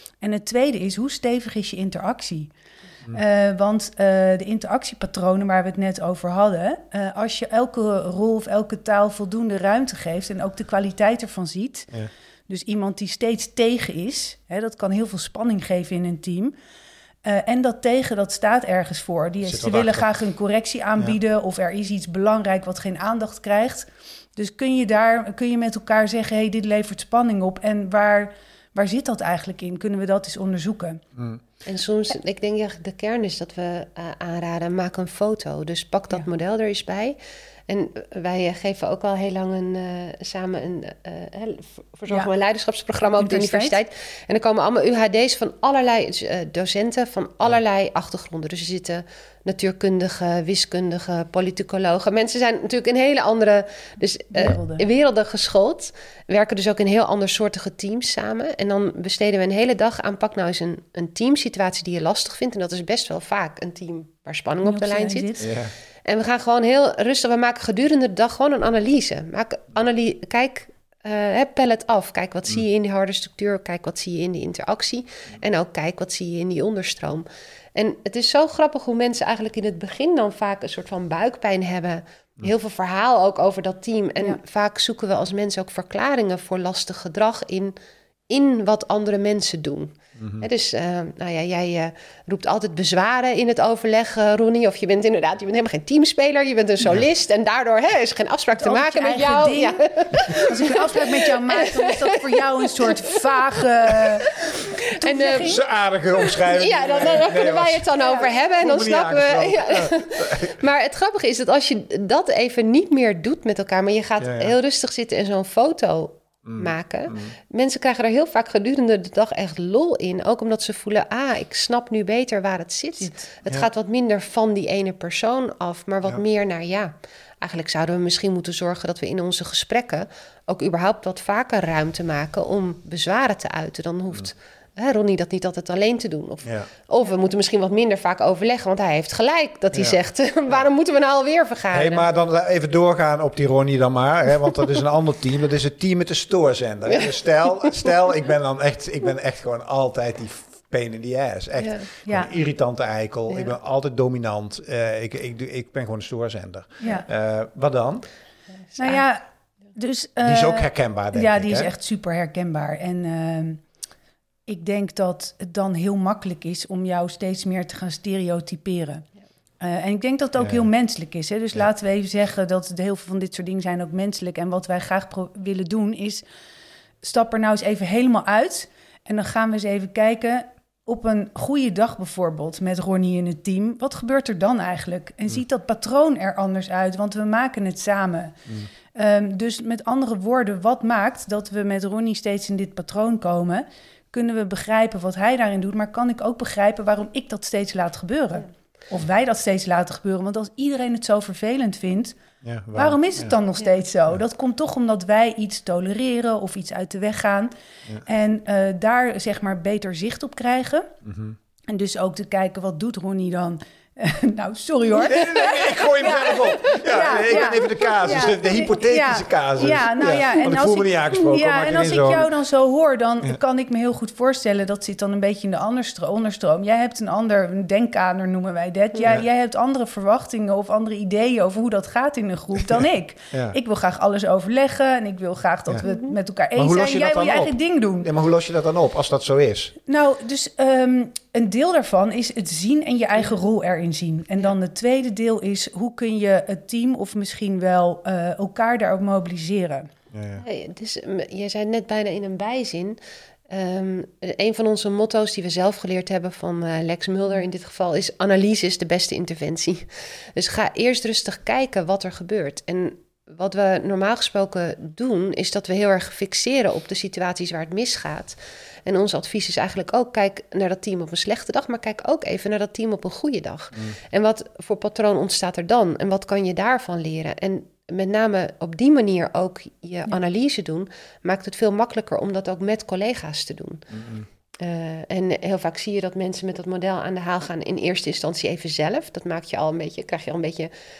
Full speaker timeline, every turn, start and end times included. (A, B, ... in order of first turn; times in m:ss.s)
0:00.2-0:02.5 A
0:03.1-0:11.9 A
0:12.5-0:16.5 A
0:17.2-0:31.0 A
0:19.4-0:20.0 B
0:31.2-0:31.4 B
0:31.6-1:05.4 C
0:43.2-0:43.8 A
0:54.3-0:54.8 A
1:04.6-1:05.5 A
1:05.4-1:05.7 B
1:06.0-1:27.7 C
1:28.3-1:42.4 C
1:30.2-1:30.5 B
1:38.6-1:44.3 A
1:44.3-1:45.6 C
1:45.0-1:45.6 A
1:45.4-1:47.9 B
1:46.2-2:22.0 C
1:48.0-1:48.2 A
1:48.6-1:50.6 B
1:54.2-1:54.5 B
1:56.4-1:57.4 B
2:21.7-2:38.1 B
2:26.9-2:27.9 C
2:31.6-2:31.9 C
2:32.0-2:32.3 A
2:33.3-2:33.5 C
2:38.8-2:43.6 A
2:40.2-2:41.7 B
2:44.5-2:49.0 A
2:49.6-2:56.2 A
2:50.4-2:50.6 B
2:57.0-3:08.4 A
3:08.9-3:22.2 A
3:22.4-3:23.3 B
3:22.7-3:27.5 A
3:28.0-3:30.9 A
3:31.0-3:31.4 B
3:31.7-3:58.1 A
3:34.9-3:42.3 B
3:53.3-3:53.6 B
3:55.8-3:56.1 C
3:56.5-3:59.7 B
3:59.9-4:09.9 A
4:10.1-4:10.4 B
4:10.4-4:13.0 C
4:13.5-4:43.9 C
4:43.9-4:44.3 B
4:44.6-4:50.7 C